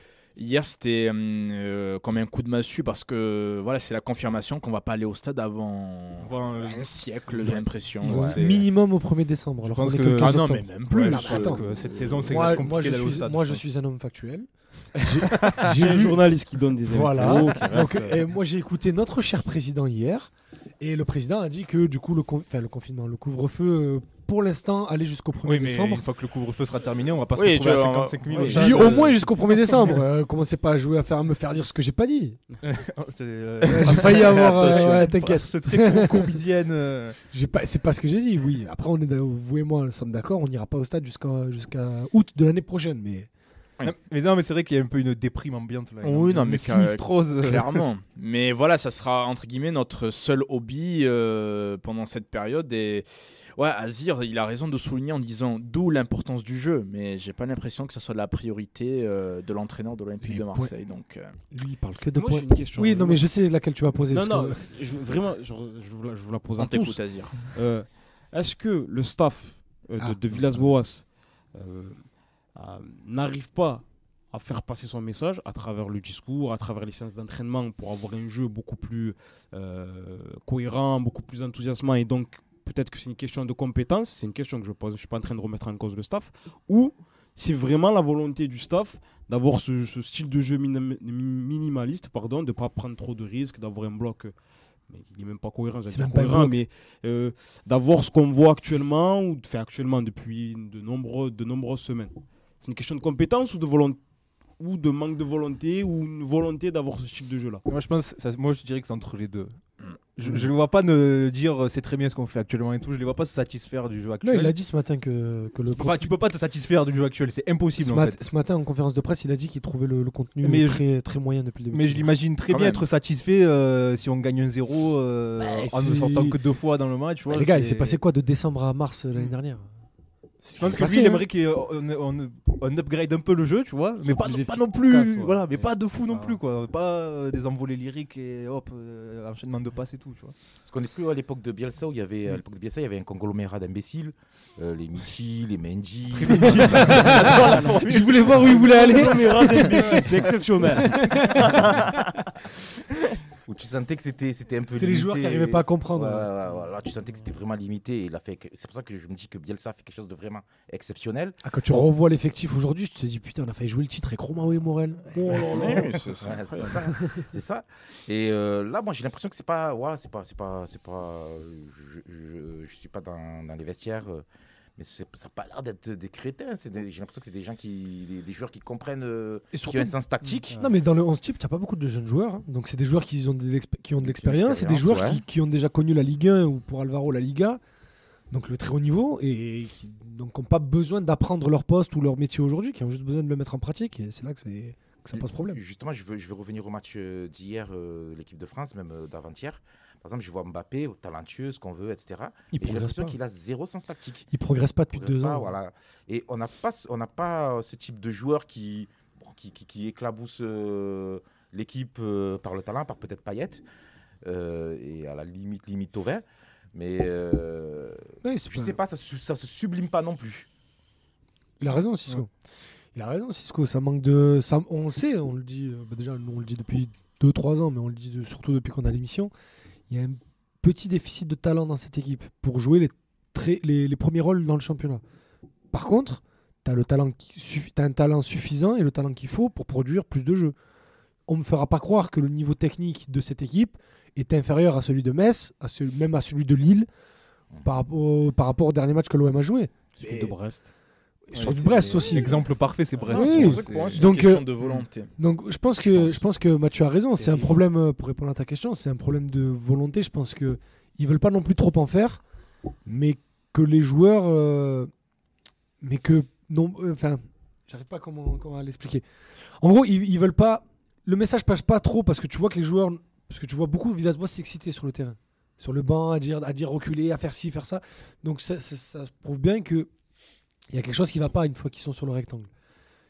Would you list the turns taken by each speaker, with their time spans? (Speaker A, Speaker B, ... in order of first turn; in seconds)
Speaker A: 0.3-8.4, 10.2-12.2, 27.3-28.6, 33.8-35.1, 46.0-61.3, 66.6-67.4, 122.5-122.8, 165.3-166.7, 253.1-255.1
Speaker B: 6.2-8.7, 9.6-13.6, 25.4-30.0, 32.6-37.2, 43.8-47.9, 107.7-109.5, 110.2-114.5, 115.7-118.2, 120.4-120.8, 121.7-128.0, 130.6-140.3, 146.1-149.0, 251.3-254.1
Speaker C: 8.0-11.6, 12.2-16.2, 16.8-26.0, 28.4-32.4, 33.6-36.3, 37.3-43.3, 60.2-60.7, 61.5-64.6, 95.9-96.6, 114.2-116.1, 117.8-122.1, 125.4-126.4, 127.3-129.6, 130.4-131.2, 146.3-151.7, 154.7-156.3, 161.4-166.0, 166.6-167.2, 179.5-179.9, 180.5-187.6, 188.3-195.6, 202.5-203.2, 204.3-205.5, 218.2-218.8, 221.6-222.3, 222.9-229.3, 229.9-235.0, 235.7-240.5, 241.3-246.9, 247.6-250.3, 251.3-252.4, 253.1-254.5, 255.2-262.2, 262.9-264.9, 265.8-269.0, 269.6-279.9, 280.7-282.5
Speaker D: 15.6-18.3, 62.1-63.3, 64.1-94.3, 94.9-104.0, 104.6-107.6, 134.0-136.4, 146.9-151.7, 250.0-250.7, 251.4-252.3, 255.9-256.2
Speaker E: 140.6-147.3, 151.4-152.1, 153.4-161.4, 166.2-174.2, 174.8-180.6, 184.0-185.2, 195.1-204.3, 204.9-213.6, 214.2-220.5